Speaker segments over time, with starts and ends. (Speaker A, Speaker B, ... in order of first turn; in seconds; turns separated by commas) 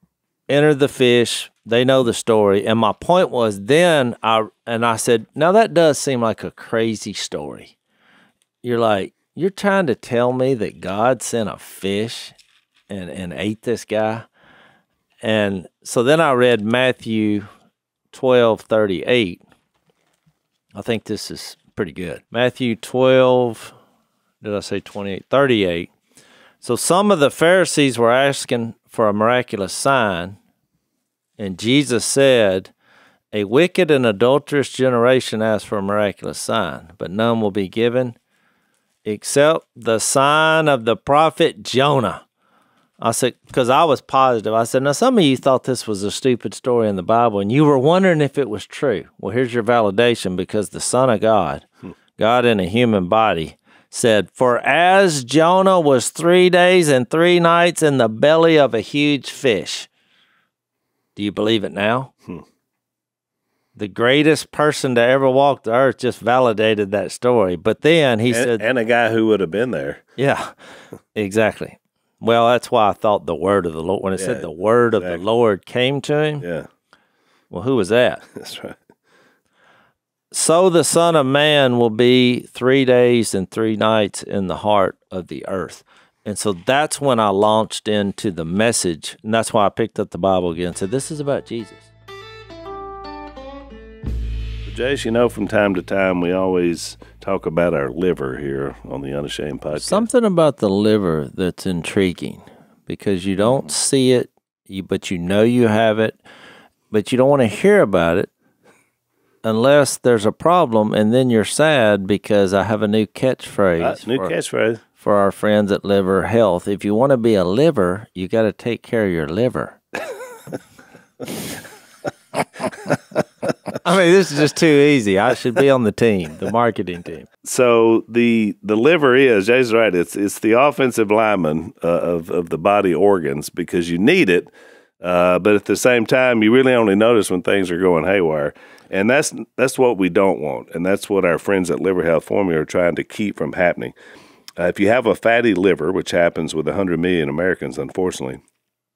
Speaker A: 0.5-7.7, Speaker A: 8.6-12.3, Speaker A: 12.9-14.3, Speaker A: 15.2-17.5, Speaker A: 18.1-19.4, Speaker A: 20.7-23.7, Speaker A: 24.4-25.9, Speaker A: 26.6-30.4, Speaker A: 31.4-32.7, Speaker A: 33.3-38.1, Speaker A: 39.0-42.2, Speaker A: 43.0-51.6, Speaker A: 52.2-59.9, Speaker A: 61.1-62.1, Speaker A: 63.7-68.6, Speaker B: 68.3-70.0, Speaker A: 70.2-70.5, Speaker A: 71.1-76.4, Speaker B: 74.2-75.2, Speaker B: 76.4-76.7, Speaker A: 77.5-78.2, Speaker B: 78.3-78.8, Speaker A: 80.3-91.9, Speaker B: 94.7-100.0, Speaker A: 99.7-106.2, Speaker A: 106.9-108.3, Speaker A: 109.4-114.3, Speaker B: 113.8-114.8, Speaker A: 115.0-119.8, Speaker A: 123.8-127.3, Speaker B: 127.4-143.9, Speaker B: 144.6-148.4